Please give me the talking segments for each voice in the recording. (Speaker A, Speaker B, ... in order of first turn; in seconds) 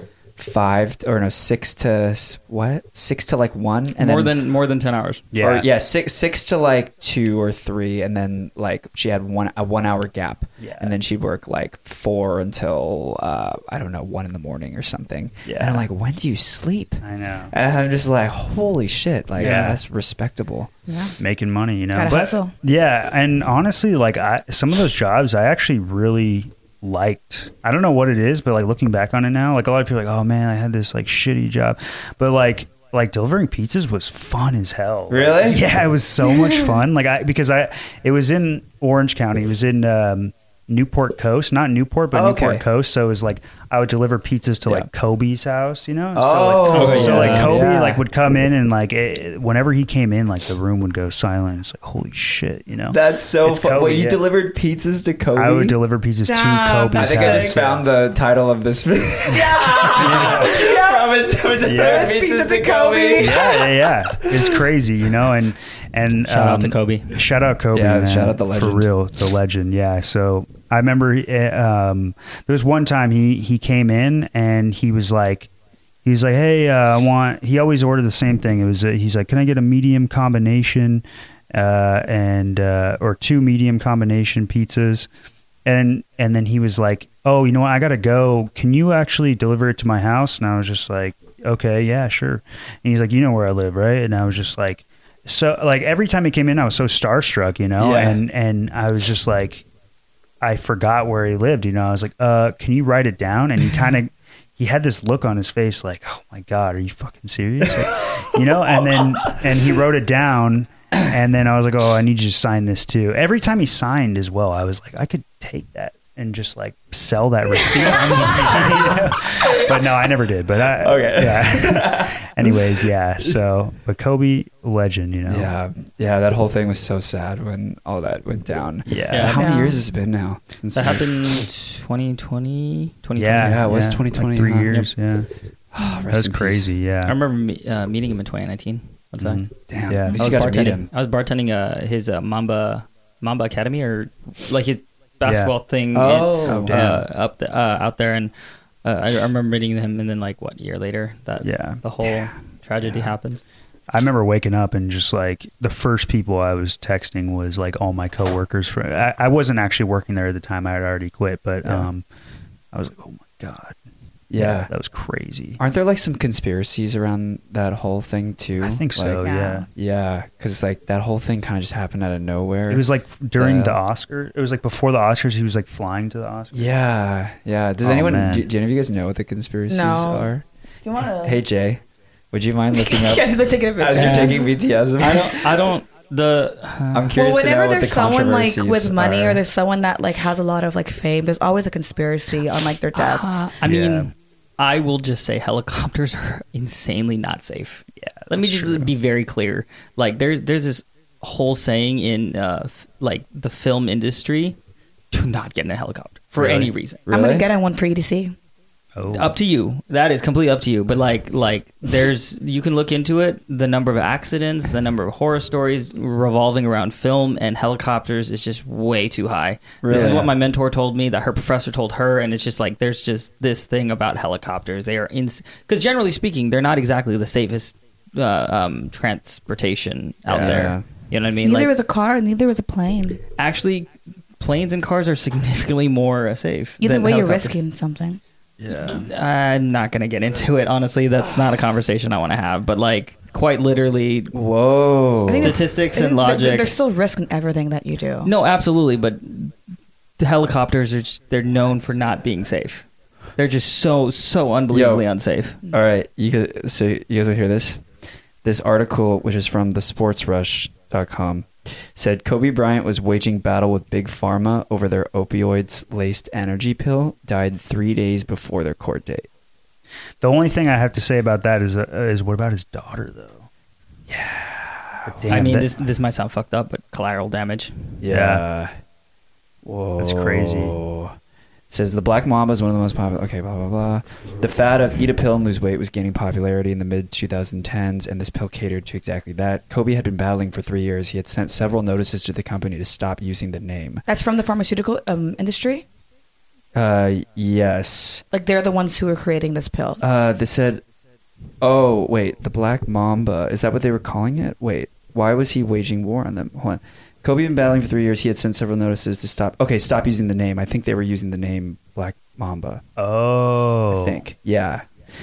Speaker A: 0.4-4.3, 5.4-20.7, 35.1-35.7, 42.1-42.6, 46.1-48.0, 52.9-55.8, 56.9-64.6, 67.7-68.9, 97.8-98.2, 107.9-109.4, 118.0-119.0, 120.8-122.9, 125.3-131.2, 133.4-134.9, 135.7-136.7, 139.7-140.9, 145.9-146.8, 161.6-161.9, 164.3-164.7, 165.6-169.2, 169.7-173.8, 176.5-180.4, 181.2-185.5, 186.9-189.4, 206.4-207.5, 219.8-220.3, 230.3-230.9, 244.3-245.5, 254.7-255.0, 255.7-257.9, 258.4-269.3, 274.1-275.5, 278.0-278.7, 279.6-281.1, 281.7-294.0, 296.7-298.2, 300.0-300.8, 301.6-312.8, 313.9-314.9
Speaker B: 4.0-5.3, 46.7-47.6, 66.3-67.2, 129.1-129.4, 130.7-133.7, 137.1-139.5, 140.1-148.3, 148.8-153.4, 184.0-184.4, 185.0-187.1, 192.9-204.6, 205.1-207.0, 209.1-231.7, 233.4-237.6, 238.7-244.3, 245.3-246.7, 248.2-249.5, 250.2-252.8, 253.4-255.6, 275.3-277.9
Speaker C: 5.3-5.7, 10.6-10.9, 15.5-15.8, 17.0-17.5, 19.4-19.8, 21.2-54.2, 55.4-57.9, 60.0-60.6, 61.6-62.1, 63.2-75.5, 76.0-85.1, 85.7-99.7, 100.4-125.5, 128.9-129.4, 133.2-135.3, 136.1-137.2, 139.2-140.5, 145.2-145.5, 146.4-147.0, 151.4-151.8, 153.9-162.1, 162.7-163.8, 164.4-165.6, 168.6-169.7, 172.7-176.7, 177.8-178.5, 193.6-194.1, 198.0-198.9, 208.9-209.3, 219.9-220.2, 230.3-230.7, 238.6-239.1, 270.2-273.5, 275.1-275.7, 278.1-278.4, 280.0-280.8, 313.0-314.2
Speaker D: 20.9-21.2, 21.9-22.5, 36.2-36.8, 56.2-57.6, 59.3-63.6, 129.4-129.8, 169.2-169.7, 179.7-180.3, 180.8-181.4, 182.7-184.5, 187.2-193.5, 207.1-208.3, 231.4-233.2, 236.8-238.2, 245.3-248.3, 294.1-295.9, 298.3-300.0